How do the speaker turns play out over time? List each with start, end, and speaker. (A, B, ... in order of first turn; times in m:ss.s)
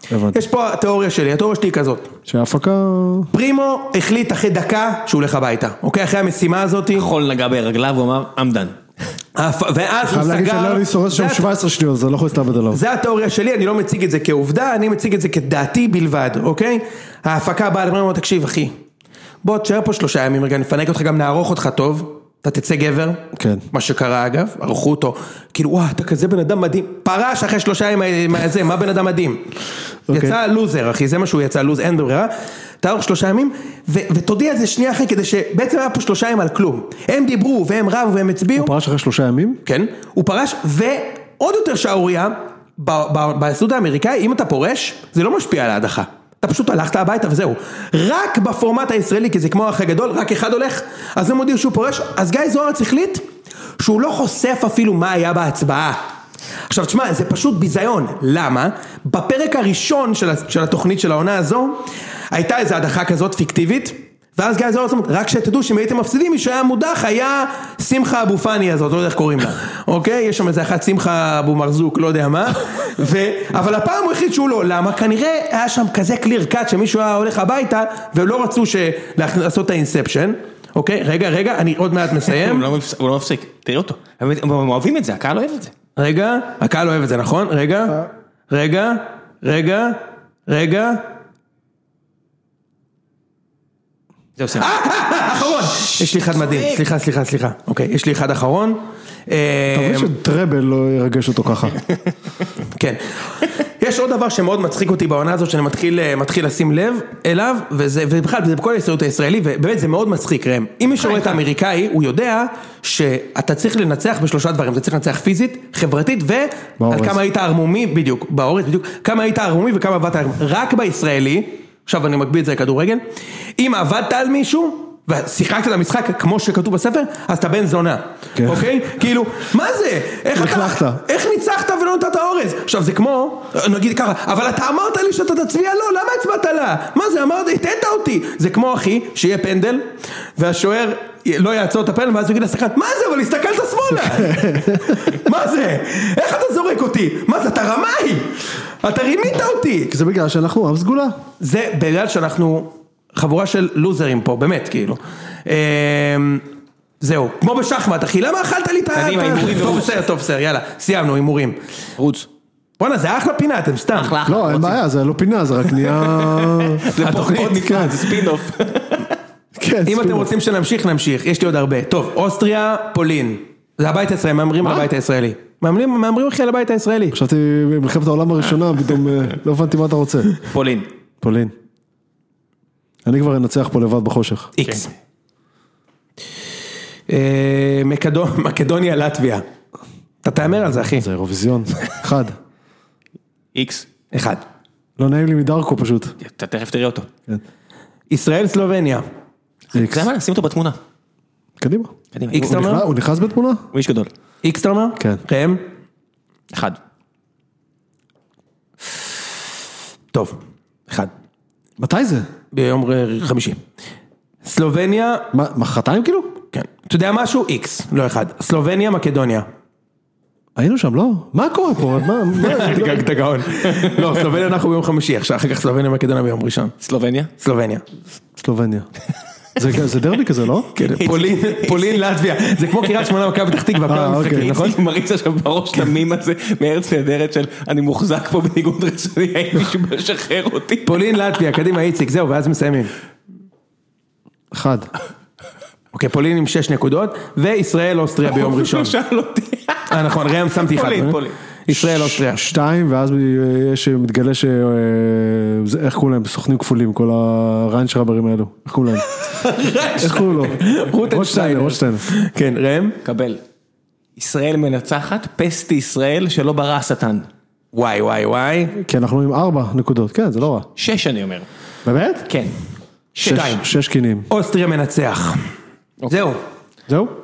0:00.1-0:00.4 A
0:00.3-0:02.1 B
0:02.3-0:03.3 A
0:03.3-0:07.1 B
0:07.0-0:08.8 C
0:09.4-0:11.5 B
0:10.0-0:12.8 A
0:12.7-0:18.7 B
0:19.4-0:29.4 B
0:23.4-0:23.6 A
0:30.1-0:30.4 A
0:30.1-0:38.7 B
0:38.6-0:39.6 A
0:39.6-0:53.2 B
0:53.8-0:56.0 B
0:56.7-1:22.7 B
1:22.2-1:25.7 C
1:26.0-1:31.0 B
1:34.4-1:34.7 C
1:34.6-1:40.1 B
1:35.7-1:36.8 C
1:39.7-1:41.8 A
1:42.7-1:43.0 B
1:43.8-2:03.0 B
1:51.0-1:51.3 C
1:56.8-1:57.2 A
2:03.6-2:29.9 B
2:08.4-2:08.6 A
2:10.3-2:11.0 A
2:24.0-2:25.0 A
2:29.9-2:31.2 A
2:31.4-2:36.4 B
2:37.0-2:41.6 B
2:38.9-2:40.0 C
2:42.0-2:42.3 C
2:42.8-2:44.2 B
2:43.9-2:44.8 C
2:44.2-2:46.8 A
2:45.7-2:49.1 C
2:47.0-2:47.8 B
2:47.6-2:48.1 A
2:49.6-2:50.3 A
2:49.8-2:57.2 B
2:57.1-3:00.4 A
3:00.5-3:00.9 C
3:01.2-3:01.5 A
3:03.0-3:04.5 A
3:04.6-3:04.9 B
3:07.1-3:09.4 B
3:10.2-3:11.1 B
3:10.9-3:12.4 A
3:13.6-3:13.9 C
3:14.1-3:14.4 B
3:15.0-3:16.1 A
3:16.2-3:17.1 C
3:18.1-3:19.0 B
3:19.7-3:20.8 C
3:19.7-3:20.1 A
3:21.6-3:23.6 A
3:22.1-3:22.6 C
3:22.3-3:22.8 B
3:23.7-3:24.1 C
3:24.4-3:25.6 B
3:26.5-3:26.8 C
3:31.8-3:32.3 A
3:32.5-3:33.6 B
3:34.4-3:35.3 B
3:35.3-3:36.4 A
3:36.5-3:39.4 B
3:40.6-3:43.1 A
3:42.4-3:46.7 B
3:46.8-3:47.3 C
3:47.4-3:47.8 B
3:48.4-3:48.9 A
3:49.6-3:50.7 A
3:50.8-3:54.8 B
3:50.8-3:52.0 C
3:53.9-3:54.6 A
3:54.2-4:01.0 C
4:00.8-4:02.9 B
4:04.5-4:04.9 A
4:05.9-4:09.0 B
4:08.2-4:11.4 C
4:09.9-4:12.4 B
4:12.2-4:19.1 A
4:19.4-4:23.0 B
4:20.0-4:22.1 A
4:23.0-4:23.4 C
4:24.2-4:27.3 C
4:27.7-4:28.7 B
4:28.8-4:30.7 A
4:30.8-4:31.5 C
4:31.8-4:32.3 A
4:32.3-4:32.6 C
4:33.1-4:33.6 C
4:33.2-4:34.3 A
4:33.2-4:33.6 B
4:34.3-4:35.4 B
4:36.1-4:36.4 B
4:36.9-4:37.1 A